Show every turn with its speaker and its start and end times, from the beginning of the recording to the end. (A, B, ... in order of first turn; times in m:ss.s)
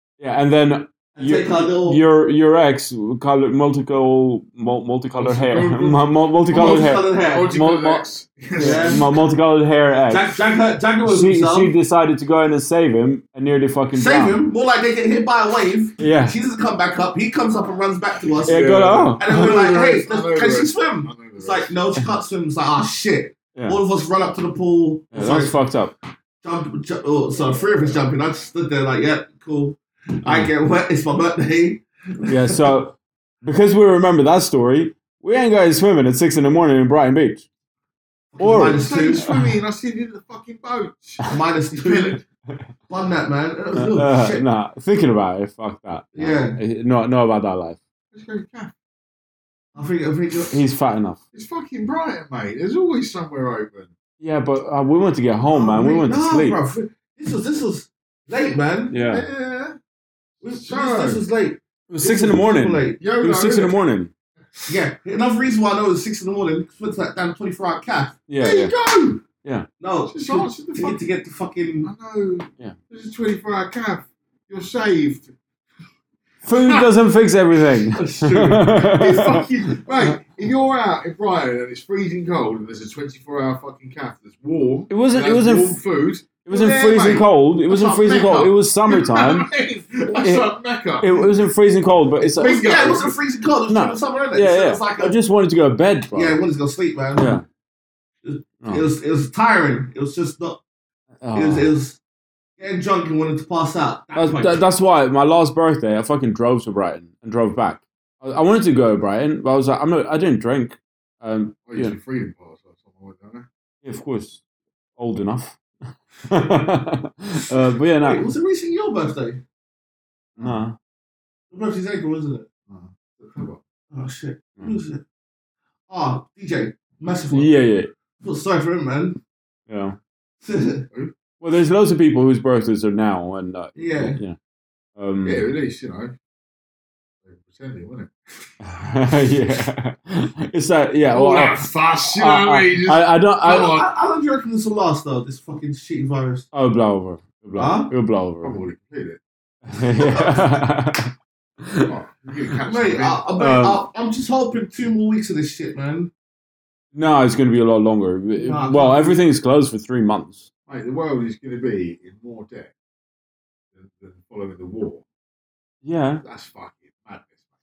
0:00.2-0:10.3 A
0:01.1-0:02.0 B
0:05.2-0:09.1 C
0:06.5-0:07.5 B
0:08.6-0:09.1 B
0:10.1-0:11.7 B
0:11.0-0:14.4 A
0:13.9-0:25.5 B
0:16.0-0:16.4 A
0:18.4-0:21.7 C
0:18.4-0:19.5 A
0:23.5-0:23.8 A
0:25.1-0:25.9 A
0:26.4-0:32.7 B
0:30.2-0:30.5 A
0:32.2-0:37.4 A
0:38.3-0:39.2 B
0:38.4-0:39.6 A
0:38.8-0:41.2 C
0:41.2-0:42.2 B
0:41.7-0:42.2 C
0:42.9-0:44.4 B
0:43.7-0:47.8 A
0:46.1-0:46.6 B
0:48.1-0:48.7 C
0:49.7-0:50.5 B
0:50.5-0:51.2 A
0:51.3-0:53.9 C
0:54.2-0:56.6 A
0:55.5-0:58.9 B
0:58.9-0:59.2 A
0:59.0-0:59.8 C
1:00.4-1:03.0 B
1:00.5-1:01.2 C
1:01.9-1:04.1 A
1:03.0-1:03.8 C
1:04.7-1:08.2 B
1:08.3-1:08.8 A
1:08.4-1:09.2 C
1:09.4-1:09.7 A
1:09.8-1:11.9 B
1:10.1-1:11.0 C
1:11.8-1:15.3 C
1:16.4-1:20.2 A
1:16.5-1:16.9 C
1:17.9-1:18.9 B
1:18.8-1:31.3 C
1:24.9-1:25.8 A
1:26.4-1:29.5 A
1:30.1-1:32.8 A
1:32.2-1:33.1 C
1:32.4-1:35.1 B
1:33.7-1:36.4 A
1:36.1-1:37.4 B
1:37.2-1:37.4 A
1:38.2-1:40.6 B
1:41.2-1:41.7 A
1:41.3-1:42.0 B
1:42.6-1:44.6 B
1:44.1-1:52.0 A
1:51.7-1:53.5 C
1:53.8-1:54.4 A
1:55.0-1:55.6 A
1:56.2-1:58.2 A
1:58.0-1:59.4 B
2:00.4-2:00.8 A
2:01.5-2:02.4 B
2:02.7-2:03.6 C
2:03.9-2:05.0 B
2:05.9-2:07.6 B
2:07.3-2:07.9 A
2:08.2-2:09.2 B
2:09.7-2:10.0 A
2:10.4-2:10.8 B
2:11.4-2:14.4 A
2:13.8-2:14.2 B
2:15.0-2:15.4 A
2:15.2-2:16.1 C
2:17.2-2:18.1 C
2:18.6-2:23.8 A
2:21.1-2:23.9 C
2:23.4-2:26.5 B
2:26.5-2:28.6 A
2:27.6-2:27.9 B
2:28.4-2:29.2 C
2:29.7-2:31.9 A
2:31.8-2:33.2 C
2:32.6-2:36.1 B
2:33.4-2:33.8 A
2:36.9-2:40.4 A
2:38.4-2:39.2 B
2:40.7-2:42.7 C
2:43.7-2:45.0 C
2:45.8-2:46.2 A
2:46.2-2:47.4 C